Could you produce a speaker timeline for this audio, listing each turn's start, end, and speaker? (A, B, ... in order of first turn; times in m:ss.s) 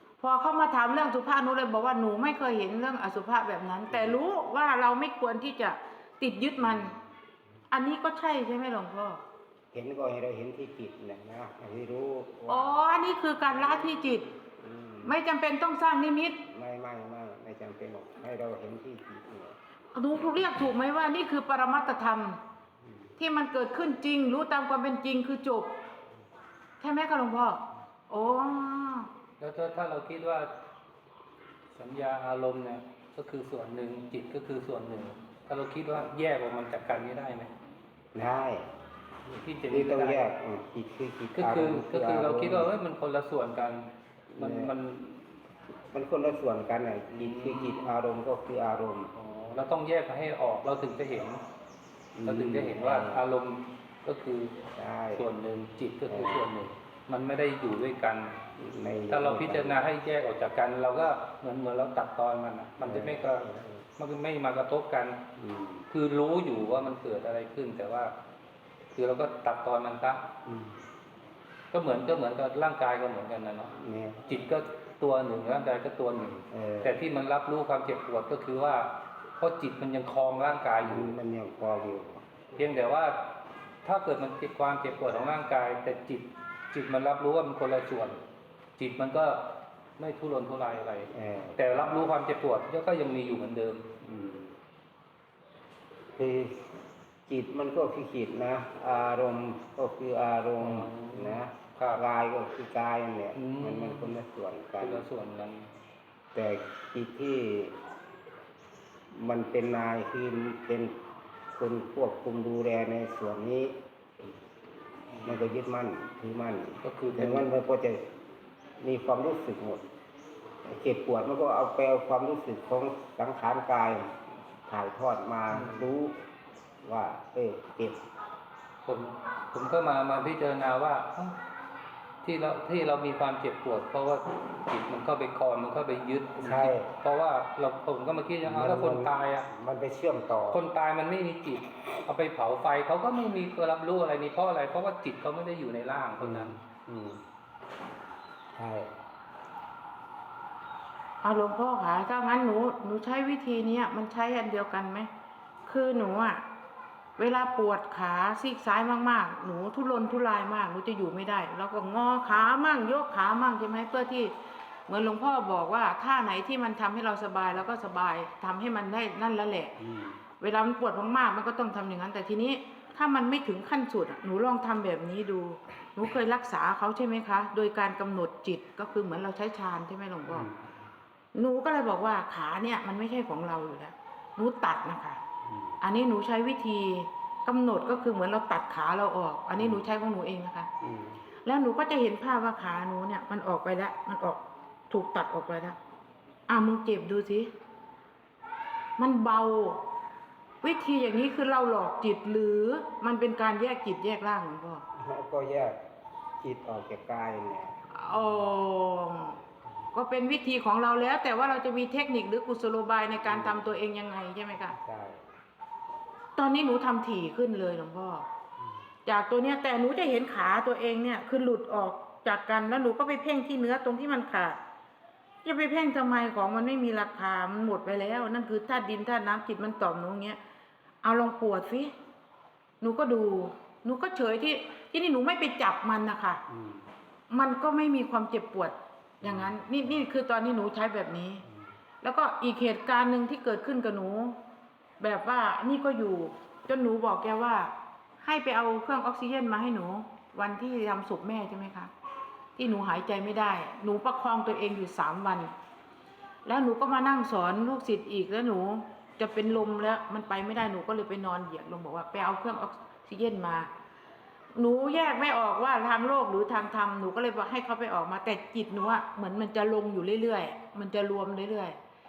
0:00.2-0:07.0 A
0:03.9-0:04.2 B
0:06.6-0:07.0 B
0:07.7-0:09.2 A
0:09.7-0:15.2 B
0:12.5-0:14.2 A
0:15.0-0:16.4 A
0:16.5-0:19.6 B
0:19.9-0:22.4 A
0:23.2-0:25.7 A
0:26.8-0:29.1 A
0:29.4-0:30.5 C
0:31.7-0:37.5 C
0:38.2-0:38.7 B
0:39.3-0:40.3 C
0:39.7-0:42.7 B
0:41.4-0:45.2 C
0:44.3-0:44.7 B
0:45.8-0:49.1 B
0:47.1-0:48.0 C
0:49.2-0:51.4 C
0:52.2-0:53.2 B
0:52.2-0:54.6 C
0:54.7-0:55.3 B
0:55.1-0:58.4 C
0:56.1-0:56.5 B
0:58.6-0:59.8 B
0:59.1-1:05.2 C
1:02.8-1:03.8 B
1:05.4-1:05.9 B
1:05.9-1:08.1 C
1:09.0-1:10.2 C
1:10.4-1:10.8 B
1:11.7-1:13.7 C
1:13.7-1:14.5 B
1:14.3-1:21.1 C
1:16.5-1:17.0 B
1:20.8-1:22.3 B
1:22.6-1:23.3 C
1:23.8-1:28.2 C
1:28.8-1:29.5 C
1:30.0-1:33.9 C
1:31.1-1:31.7 B
1:34.0-1:34.6 B
1:36.2-1:36.7 B
1:37.3-1:45.0 B
1:40.6-1:42.0 C
1:43.3-1:44.2 C
1:44.8-1:45.7 C
1:46.3-1:47.8 B
1:49.1-1:51.0 B
1:51.5-1:53.8 B
1:55.1-1:55.5 C
1:55.2-1:58.0 B
1:56.8-1:57.5 C
1:58.8-1:59.8 B
2:00.6-2:06.2 B
2:05.5-2:05.9 C
2:06.8-2:08.0 B
2:08.8-2:11.4 C
2:12.2-2:19.5 C
2:16.4-2:16.9 B
2:18.4-2:20.6 B
2:20.5-2:26.5 C
2:26.2-2:27.2 B
2:28.6-2:28.9 B
2:31.2-2:35.1 A
2:35.7-2:36.4 A
2:37.2-2:44.3 A
2:44.9-2:49.8 A
2:49.8-2:50.2 B
2:50.4-3:00.5 A
3:00.3-3:00.8 B
3:01.3-3:05.2 A
3:05.4-3:05.8 B
3:05.8-3:10.7 A
3:09.6-3:09.8 B
3:10.8-3:11.2 B
3:11.4-3:15.8 A
3:16.5-3:17.5 A
3:19.0-3:19.8 A
3:20.6-3:24.8 A
3:25.0-3:25.8 B
3:26.4-3:28.5 B
3:27.9-3:29.4 A
3:29.9-3:34.8 A
3:33.2-3:33.8 B
3:34.7-3:35.3 B
3:36.4-3:38.3 A
3:39.1-3:44.6 A
3:45.4-3:50.4 A
3:51.0-3:51.9 A
3:52.8-3:56.4 A
3:56.5-3:56.9 B
3:57.3-4:01.4 A
3:59.2-3:59.7 B
4:02.0-4:04.4 A
4:05.0-4:11.9 A
4:12.6-4:15.5 A
4:16.4-4:23.7 A
4:24.6-4:31.8 A